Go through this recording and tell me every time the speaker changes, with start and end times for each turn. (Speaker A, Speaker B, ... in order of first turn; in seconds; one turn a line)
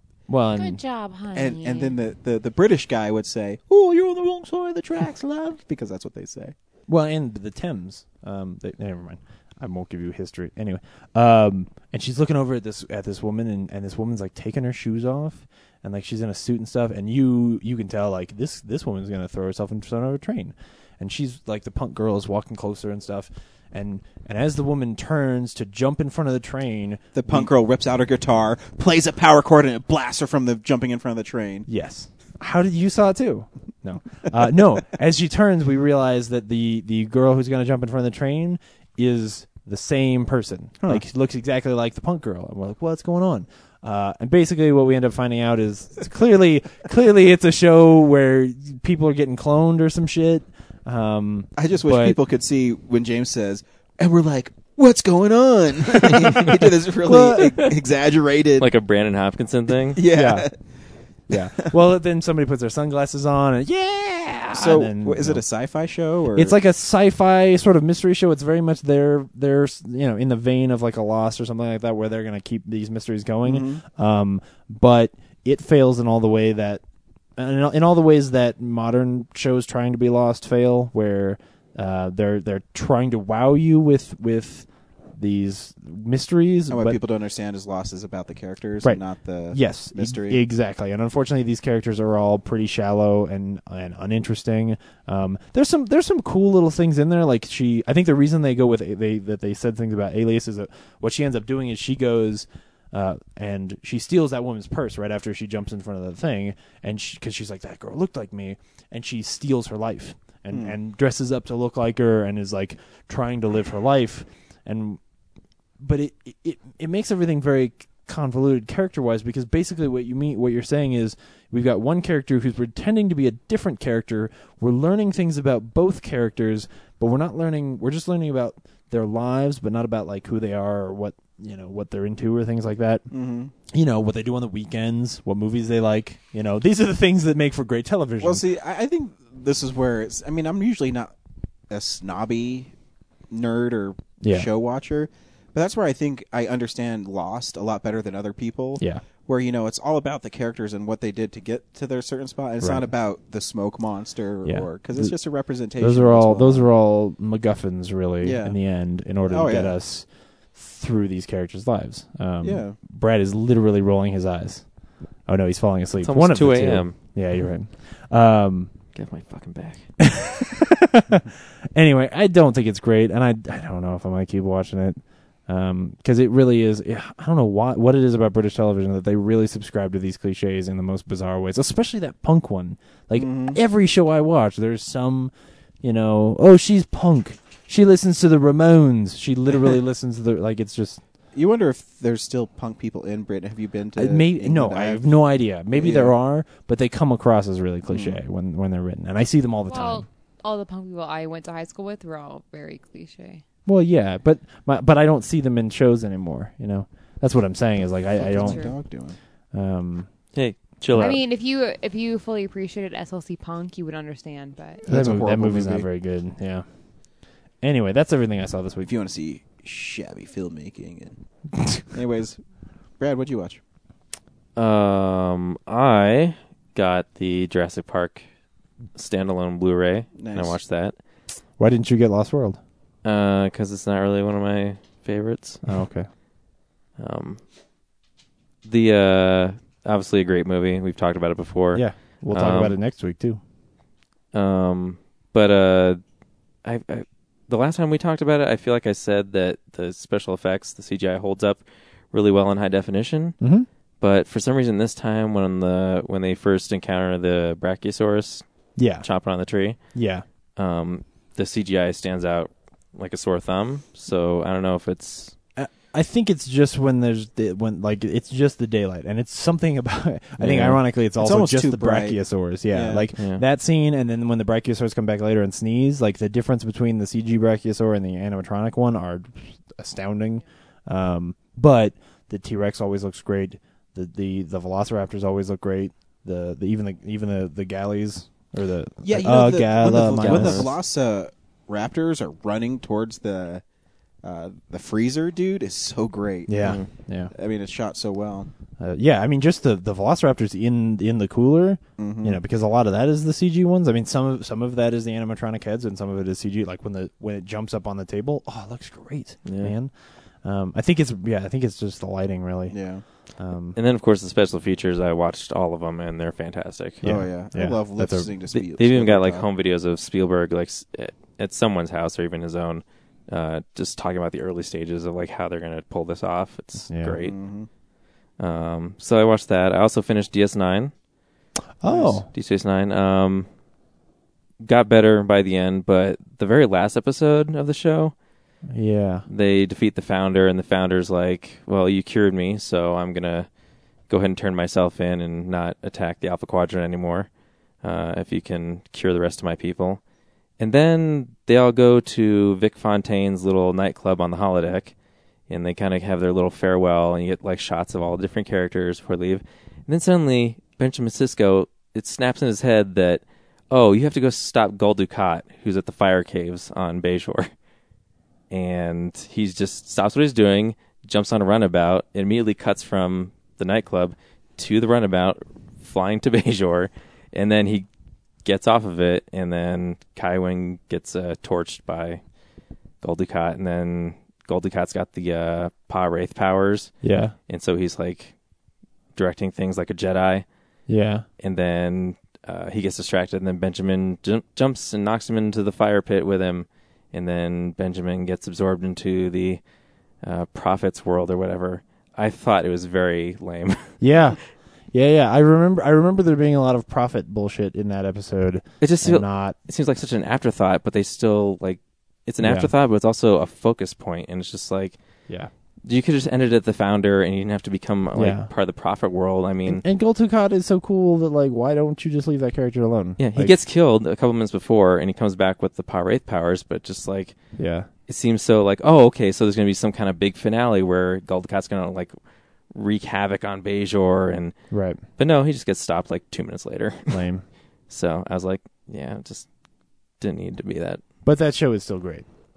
Speaker A: 0.3-0.8
Speaker B: 0.5-2.0
Speaker C: 1.3-6.5
Speaker A: 6.9-27.5
Speaker C: 27.1-31.7
Speaker A: 31.7-52.2
Speaker C: 51.6-58.7
Speaker A: 57.0-57.6
Speaker D: 58.6-60.0
Speaker C: 59.9-60.5
Speaker A: 60.1-60.5
Speaker A: 61.3-65.4
Speaker C: 64.5-66.6
Speaker A: 66.3-76.8
Speaker C: 73.4-73.8
Speaker A: 77.4-87.0
Speaker C: 86.7-90.4
Speaker A: 88.8-115.0
Speaker C: 110.5-110.8
Speaker A: 115.8-133.1
Speaker C: 133.1-133.5
Speaker A: 133.7-138.4
Speaker C: 138.2-141.1
Speaker C: 141.7-142.7
Speaker C: 143.3-156.7
Speaker A: 144.2-144.5
Speaker A: 152.6-152.9
Speaker A: 154.4-155.2
Speaker A: 155.8-164.7
Speaker C: 158.2-158.6
Speaker C: 159.2-159.8
Speaker C: 162.4-162.8
Speaker A: 165.3-168.7
Speaker D: 166.0-167.0
Speaker D: 168.9-169.9
Speaker A: 170.0-191.0
Speaker C: 183.2-183.6
Speaker C: 191.3-195.2
Speaker A: 193.9-200.1
Speaker C: 195.7-196.2
Speaker C: 197.9-198.2
Speaker B: 199.7-203.4
Speaker A: 203.7-208.7
Speaker C: 208.2-209.2
Speaker B: 208.4-208.7
Speaker A: 209.5-210.1
Speaker D: 210.3-211.2
Speaker B: 211.0-214.8
Speaker A: 214.9-216.7
Speaker C: 214.9-215.9
Speaker A: 217.6-218.9
Speaker C: 218.8-221.2
Speaker C: 221.9-222.4
Speaker C: 223.0-223.6
Speaker D: 224.6-228.2
Speaker D: 229.0-231.0
Speaker C: 230.2-230.6
Speaker A: 231.6-232.6
Speaker D: 233.0-235.6
Speaker A: 235.6-236.1
Speaker D: 237.0-237.4
Speaker D: 238.6-242.8
Speaker A: 241.7-243.4
Speaker D: 244.3-246.0
Speaker D: 246.6-253.4
Speaker A: 253.4-253.7
Speaker D: 254.0-258.4
Speaker A: 258.8-259.1
Speaker D: 259.0-259.9
Speaker A: 259.9-260.2
Speaker D: 260.6-265.4
Speaker A: 265.6-290.7
Speaker D: 270.4-270.8
Speaker C: 271.2-273.1
Speaker D: 273.2-273.4
Speaker C: 289.0-293.6
Speaker D: 289.9-290.7
Speaker C: 294.2-296.8
Speaker A: 296.5-297.3
Speaker D: 296.6-296.9
Speaker C: 297.3-298.5
Speaker A: 298.8-312.8
Speaker C: 302.0-302.4
Speaker D: 309.4-309.8
Speaker C: 312.7-313.0
Speaker A: 313.4-313.8
Speaker D: 313.8-317.1
Speaker A: 317.0-318.3
Speaker C: 317.0-319.5
Speaker D: 318.5-327.4
Speaker A: 326.9-327.2
Speaker C: 327.2-327.7
Speaker D: 328.4-330.9
Speaker A: 331.8-332.3
Speaker D: 331.9-333.5
Speaker D: 334.6-338.1
Speaker A: 338.7-339.3
Speaker D: 339.3-343.5
Speaker D: 344.1-347.3
Speaker D: 347.8-350.0
Speaker D: 350.6-354.9
Speaker D: 355.5-367.5
Speaker D: 368.5-377.9
Speaker D: 378.4-382.2
Speaker D: 383.0-386.9
Speaker A: 387.0-387.4
Speaker D: 387.5-388.4
Speaker D: 389.1-390.5
Speaker A: 390.9-391.3
Speaker D: 391.4-399.6
Speaker D: 400.2-403.9
Speaker A: 404.0-404.4
Speaker A: 404.9-409.6
Speaker D: 408.8-415.0
Speaker A: 412.4-412.7
Speaker D: 415.9-419.8
Speaker A: 418.1-418.5
Speaker A: 419.7-423.6
Speaker D: 423.2-427.4
Speaker A: 427.6-427.9
Speaker D: 428.1-432.1
Speaker D: 432.7-434.6
Speaker A: 434.7-435.0
Speaker D: 435.2-437.2
Speaker A: 437.1-437.4
Speaker D: 437.9-439.5
Speaker D: 440.2-441.0
Speaker A: 441.2-442.3